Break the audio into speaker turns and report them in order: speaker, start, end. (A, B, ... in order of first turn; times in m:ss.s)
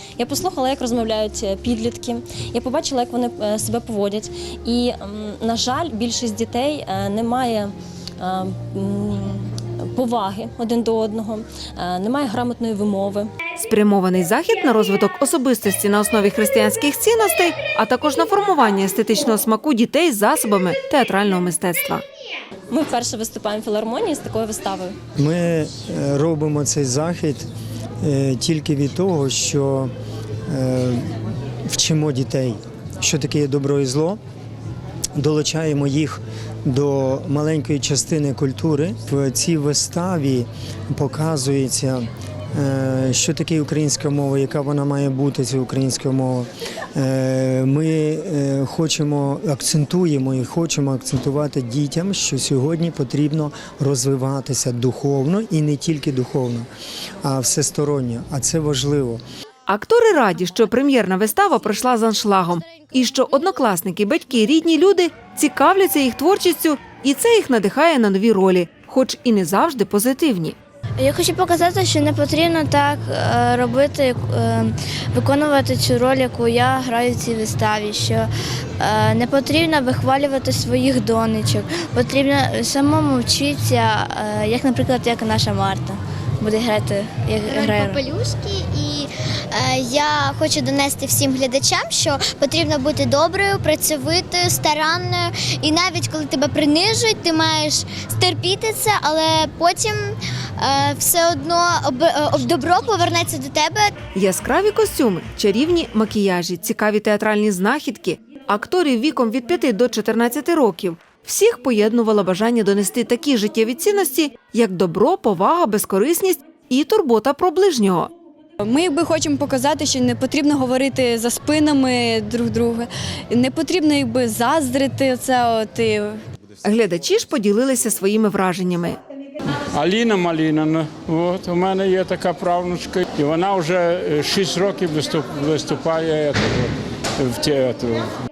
0:00.2-0:13.3 A
0:13.6-0:22.0 B
0:22.7-0:25.0 A
0:25.2-0:27.5 C
0:28.0-0:29.9 C
0:30.5-0:31.1 C
0:31.7-0:34.2 C
0:35.2-0:56.7 C
0:57.2-0:59.2 C
0:59.7-1:10.6 B
1:11.0-1:18.3 D
1:18.8-1:28.0 D
1:27.5-1:43.9 E
1:44.2-1:58.1 B
1:58.6-2:06.2 F
2:06.6-2:09.0 B
2:09.5-2:18.1 G